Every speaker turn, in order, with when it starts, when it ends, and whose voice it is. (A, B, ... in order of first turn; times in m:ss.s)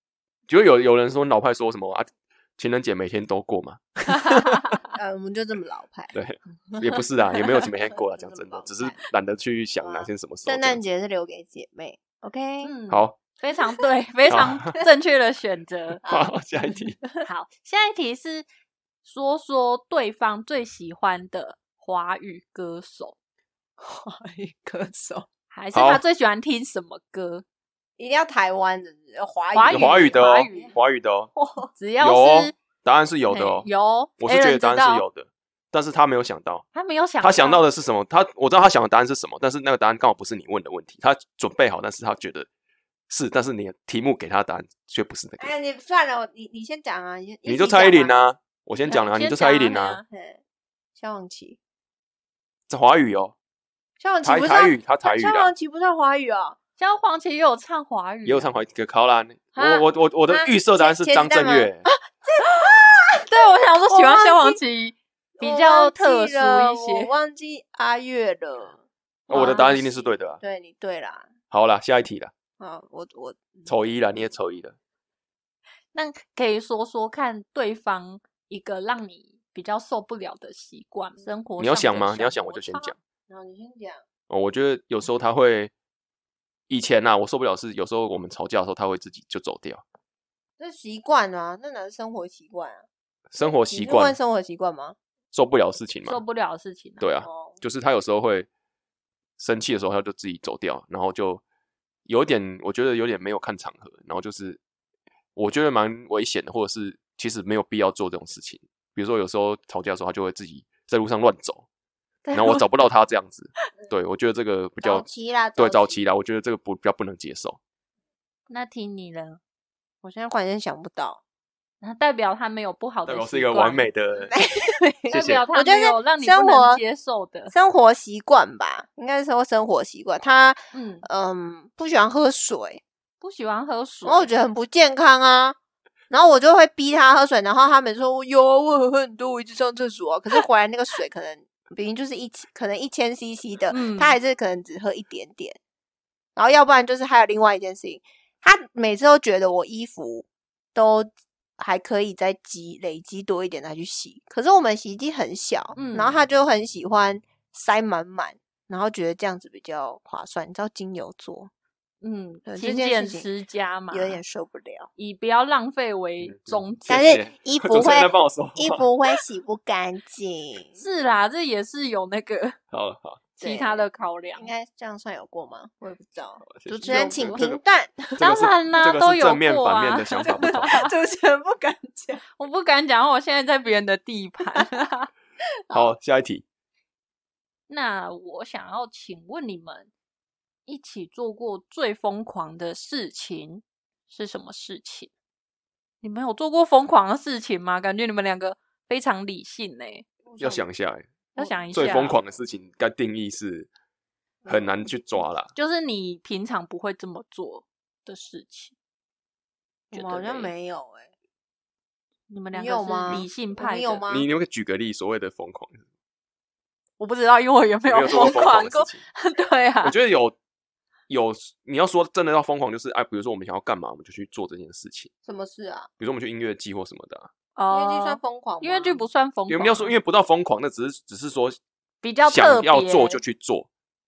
0:00.5-0:04.8 A
0:04.3-0:04.8 B
0:04.9-0:06.2 C
0:06.1-0:10.8 A
0:06.7-0:07.0 C
0:07.5-0:09.0 C
0:09.8-0:12.7 C
0:12.6-0:16.0 B
0:12.9-0:13.2 A
0:14.3-0:14.7 A
0:16.0-0:17.3 C
0:16.0-0:17.0 A
0:17.2-0:18.5 B
0:19.0-0:23.2 B
0:23.8-0:25.3 C
0:25.5-0:27.4 B
0:25.7-0:26.0 A
0:28.0-0:30.7 C
0:29.5-0:30.7 B
0:29.7-0:31.3 A
0:31.4-0:31.7 C
0:31.8-0:32.6 B
0:32.0-0:33.7 A
0:33.3-0:35.0 B
0:34.2-0:36.6 A
0:36.7-0:37.6 B
0:37.2-0:42.5 A
0:43.1-0:45.5 A
0:45.4-0:48.3 C
0:47.5-0:50.0 A
0:48.9-0:50.0 B
0:50.1-0:50.4 C
0:51.0-0:51.6 C
0:52.7-0:53.4 A
0:54.0-0:56.6 C
0:54.2-0:55.5 A
0:56.8-0:58.5 B
0:58.2-1:01.8 A
0:59.6-1:04.6 C
1:03.3-1:07.1 B
1:05.4-1:11.3 C
1:09.3-1:10.4 A
1:09.3-1:09.8 B
1:11.5-1:12.3 A
1:12.6-1:13.7 C
1:13.7-1:14.8 A
1:15.9-1:22.9 B
1:21.6-1:23.0 A
1:23.3-1:24.0 C
1:24.3-1:25.7 A
1:26.7-1:29.8 A
1:30.6-1:32.8 C
1:33.3-1:34.2 A
1:33.7-1:35.0 C
1:35.3-1:36.2 A
1:36.1-1:37.0 B
1:37.0-1:38.5 A
1:37.2-1:37.6 C
1:39.4-1:41.4 A
1:42.1-1:44.6 A
1:45.4-1:51.7 A
1:52.2-1:52.7 B
1:52.3-1:55.1 A
1:54.8-1:56.0 C
1:55.6-1:57.6 A
1:58.5-1:59.4 B
2:00.0-2:01.2 C
2:01.8-2:03.9 B
2:03.1-2:04.3 A
2:04.3-2:06.8 C
2:05.1-2:05.4 A
2:05.1-2:07.5 B
2:07.5-2:12.8 C
2:10.7-2:11.1 B
2:13.2-2:14.3 B
2:14.0-2:15.6 C
2:16.1-2:25.6 C
2:23.7-2:24.2 B
2:26.4-2:41.5 C
2:35.8-2:36.2 B
2:42.0-2:44.2 B
2:42.5-2:43.3 C
2:43.9-2:44.9 C
2:45.0-2:47.2 B
2:46.2-2:48.9 A
2:46.9-2:50.8 C
2:50.8-2:52.6 B
2:52.7-2:53.2 A
2:53.4-2:54.5 B
2:53.4-2:58.2 C
2:56.5-2:57.6 A
2:56.9-2:57.4 B
2:58.2-3:00.8 A
2:58.2-3:00.9 B
3:00.4-3:02.2 C
3:02.4-3:05.1 B
3:05.7-3:06.4 A
3:07.7-3:09.9 B
3:10.7-3:15.1 B
3:16.0-3:20.0 B
3:20.3-3:20.6 C
3:20.4-3:21.1 A
3:21.4-3:22.1 C
3:21.4-3:22.2 B
3:21.7-3:23.7 A
3:24.4-3:24.8 C
3:24.5-3:25.5 A
3:25.5-3:28.7 B
3:29.9-3:31.1 C
3:29.9-3:30.5 B
3:32.3-3:34.0 B
3:32.5-3:34.3 C
3:34.1-3:35.8 A
3:37.0-3:40.0 B
3:37.9-3:39.0 A
3:39.8-3:40.4 A
3:41.1-3:45.1 A
3:45.2-3:45.9 C
3:46.0-3:47.3 A
3:47.6-3:50.0 B
3:47.7-3:49.1 C
3:49.5-3:51.6 A
3:52.0-3:53.2 B
3:52.3-3:53.7 A